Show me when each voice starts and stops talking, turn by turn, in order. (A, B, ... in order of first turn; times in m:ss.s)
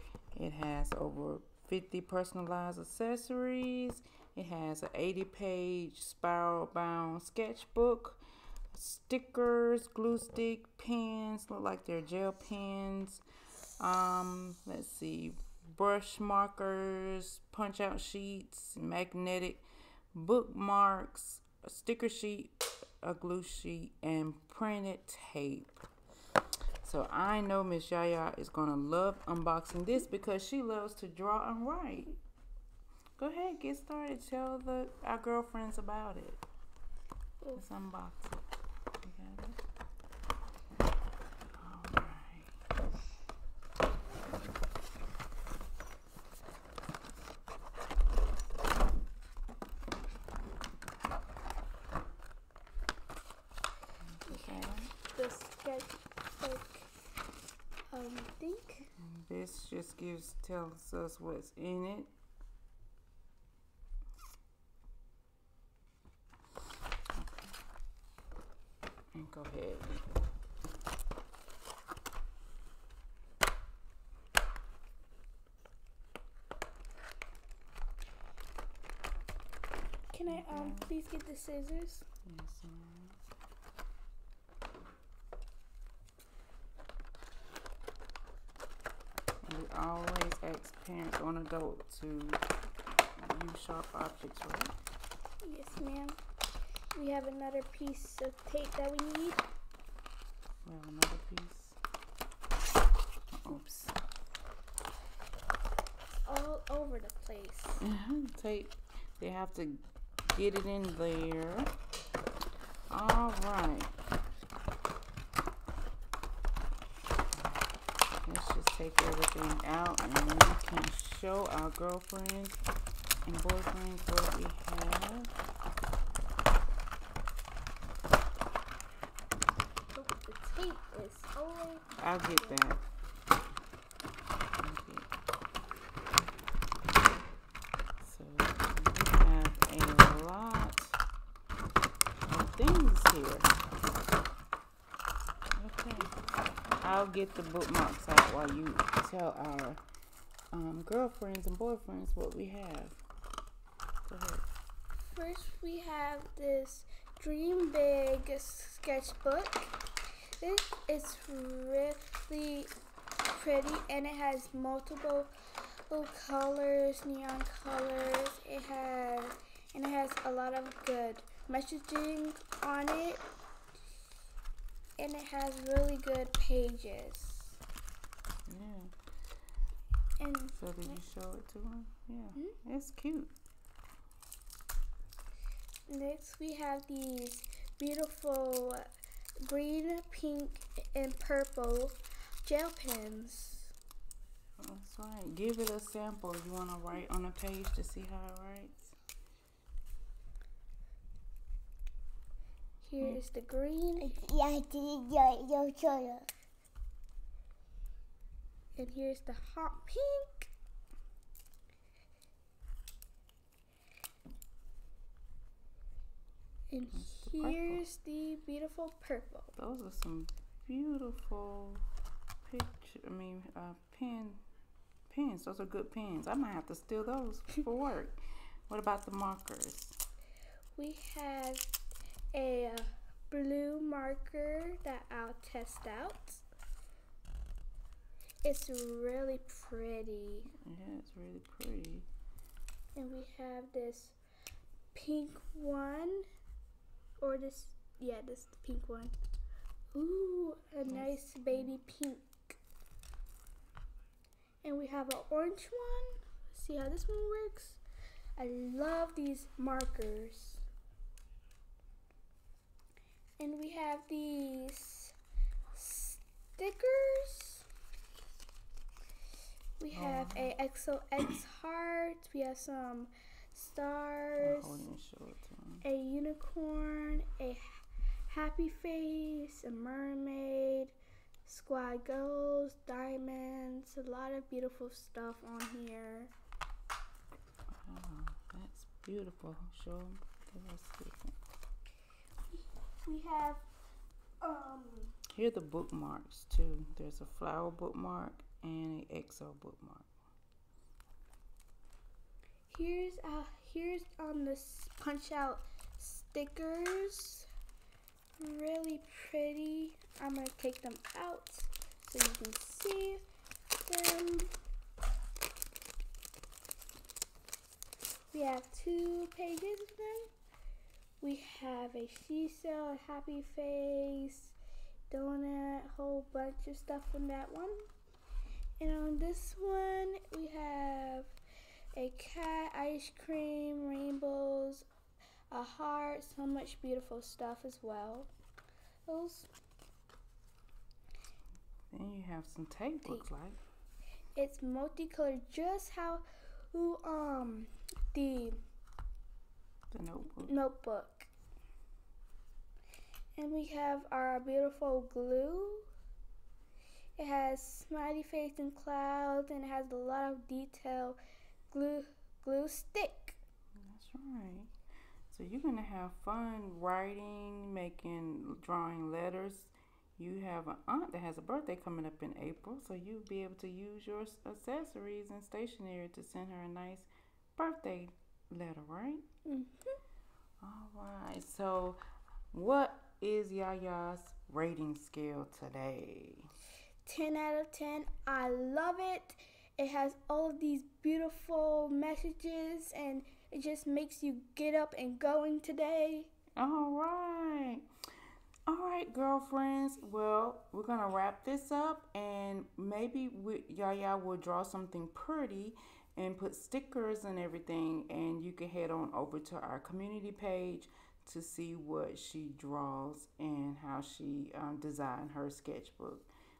0:00.3-0:08.2 A
0:08.7-0:13.2 A
0:13.8-0:25.8 A
0:26.8-0:32.1 A
0:33.2-0:36.4 A
0:37.5-0:38.4 A
0:39.0-0:39.6 A
0:41.6-0:42.5 A
0:54.0-0:54.9 A
0:54.3-0:56.9 B
0:57.9-0:58.9 B
0:59.0-1:02.1 A
1:07.1-1:07.5 A
1:09.1-1:10.0 A
1:20.1-1:22.0 B
1:20.2-1:20.9 A
1:22.2-1:23.2 A
1:29.4-1:32.4 A
1:33.2-1:34.7 A
1:35.4-1:36.2 B
1:36.9-1:39.4 B
1:40.6-1:41.8 A
1:43.3-1:44.0 A
1:46.2-1:47.8 B
1:47.8-1:51.7 A
1:52.9-1:53.9 A
1:58.2-2:02.6 A
2:03.2-2:05.3 A
2:09.9-2:12.6 B
2:12.0-2:12.8 A
2:14.6-2:15.1 A
2:18.0-2:21.0 A
2:22.3-2:23.6 A
2:25.6-2:26.1 A
2:26.8-2:29.8 A
2:30.5-2:33.0 A
2:34.1-2:34.4 A
2:35.0-2:39.7 B
2:40.4-2:42.7 B
2:43.3-2:45.3 B
2:45.9-2:53.2 B
2:55.0-2:57.6 B
2:58.5-2:58.9 A
3:00.2-3:00.9 B
3:00.5-3:03.3 A
3:05.9-3:08.8 B
3:09.4-3:13.7 B
3:14.6-3:18.9 A
3:22.8-3:24.1 B
3:24.0-3:26.3 C
3:28.8-3:30.5 B
3:36.7-3:39.5 B
3:36.9-3:37.8 A
3:39.6-3:41.8 A
3:42.4-3:44.4 A
3:45.1-3:50.0 A
3:50.8-3:51.7 B
3:52.3-3:56.4 B
3:58.4-4:00.5 B
4:00.6-4:02.1 A
4:02.9-4:04.1 B
4:04.9-4:06.2 B
4:07.2-4:09.1 B
4:09.9-4:12.6 B
4:10.9-4:11.7 A
4:14.6-4:17.8 B
4:18.4-4:20.6 B
4:23.4-4:25.1 B
4:25.7-4:27.6 B
4:29.8-4:34.8 B
4:29.9-4:30.5 A
4:34.4-4:35.8 A
4:35.8-4:46.3 B
4:47.7-4:51.4 A
4:52.6-4:53.6 B
4:54.4-4:55.1 B
4:55.3-5:00.1 A
5:02.7-5:07.5 B
5:08.4-5:13.2 B
5:13.8-5:14.5 B
5:18.3-5:20.3 B
5:21.2-5:24.5 B
5:25.1-5:27.8 B
5:28.8-5:31.3 B
5:31.9-5:34.8 B
5:35.5-5:38.3 B
5:39.1-5:39.5 B
5:41.9-5:43.6 A
5:44.4-5:48.6 B
5:49.9-5:50.5 A
5:50.4-5:51.3 B
5:53.4-5:55.9 B
5:57.2-6:01.2 B
6:01.7-6:03.4 B
6:03.8-6:04.7 A
6:05.3-6:19.2 A
6:19.4-6:20.0 B
6:20.6-6:22.0 A
6:22.5-6:26.5 A
6:27.0-6:36.3 B
6:36.6-6:37.8 A
6:38.7-6:56.3 A